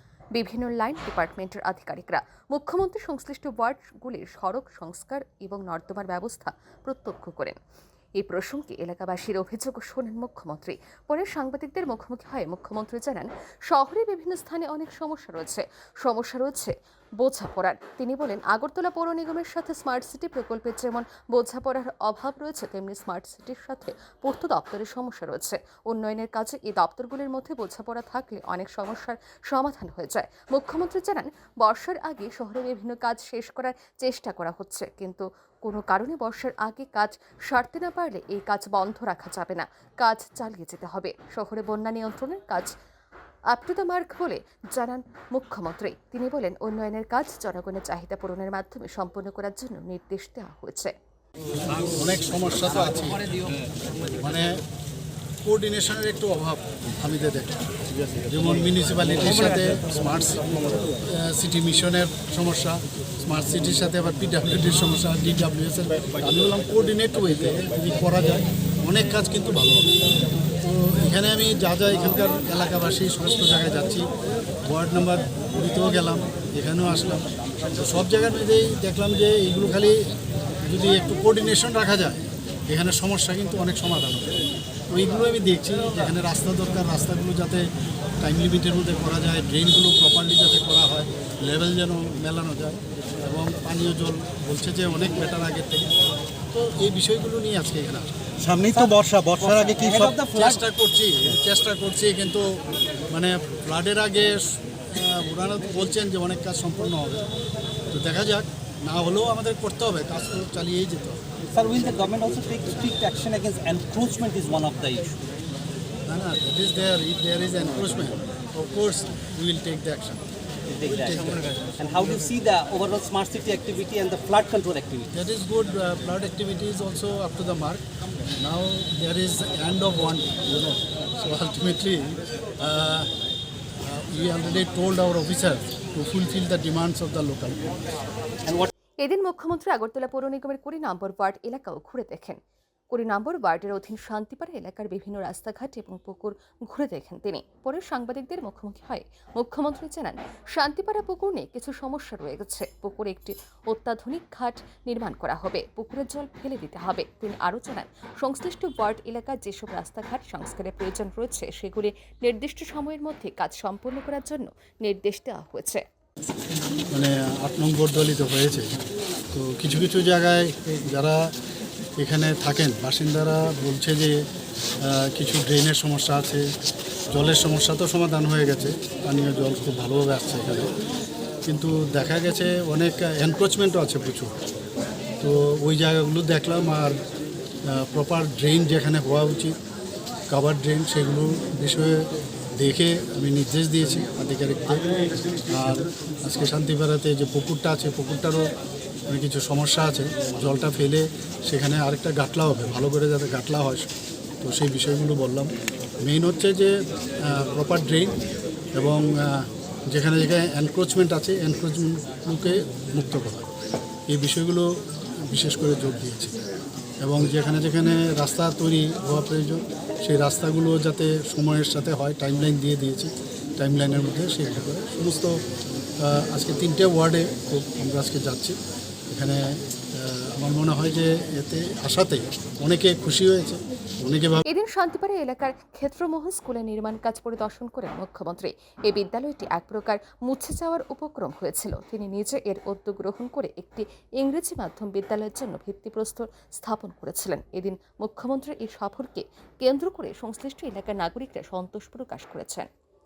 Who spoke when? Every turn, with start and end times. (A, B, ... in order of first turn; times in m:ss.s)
0:00.3-0:07.6 A
0:08.2-0:42.7 A
0:43.5-0:50.9 A
0:51.9-0:53.3 B
0:54.2-0:54.6 B
0:55.4-0:57.6 B
0:58.3-1:00.4 B
1:01.0-1:09.9 B
1:10.6-1:14.0 B
1:14.6-1:20.0 B
1:20.6-1:24.3 B
1:24.9-1:27.6 B
1:28.2-1:35.9 B
1:36.5-1:42.6 B
1:38.6-1:40.6 C
1:43.1-1:47.2 B
1:47.9-1:51.2 B
1:51.5-1:55.2 C
1:56.1-2:00.2 B
2:00.7-2:05.1 C
2:00.9-2:01.4 B
2:05.1-2:07.8 B
2:08.4-2:13.1 B
2:13.8-2:17.7 B
2:19.0-2:22.4 A
2:22.9-2:45.8 A
2:46.9-2:48.7 B
2:49.3-2:51.2 B
2:52.0-2:54.2 B
2:54.8-2:56.4 B
2:57.1-3:00.7 B
3:01.4-3:04.3 B
3:05.2-3:07.0 B
3:07.6-3:09.6 B
3:10.3-3:12.0 B
3:12.6-3:18.4 B
3:19.1-3:23.8 B
3:24.4-3:25.5 B
3:26.0-3:28.2 B
3:28.7-3:33.5 B
3:34.1-3:34.7 B
3:35.2-3:36.3 B
3:37.0-3:45.3 B
3:46.0-3:48.6 B
3:49.1-3:54.4 B
3:54.5-4:12.7 A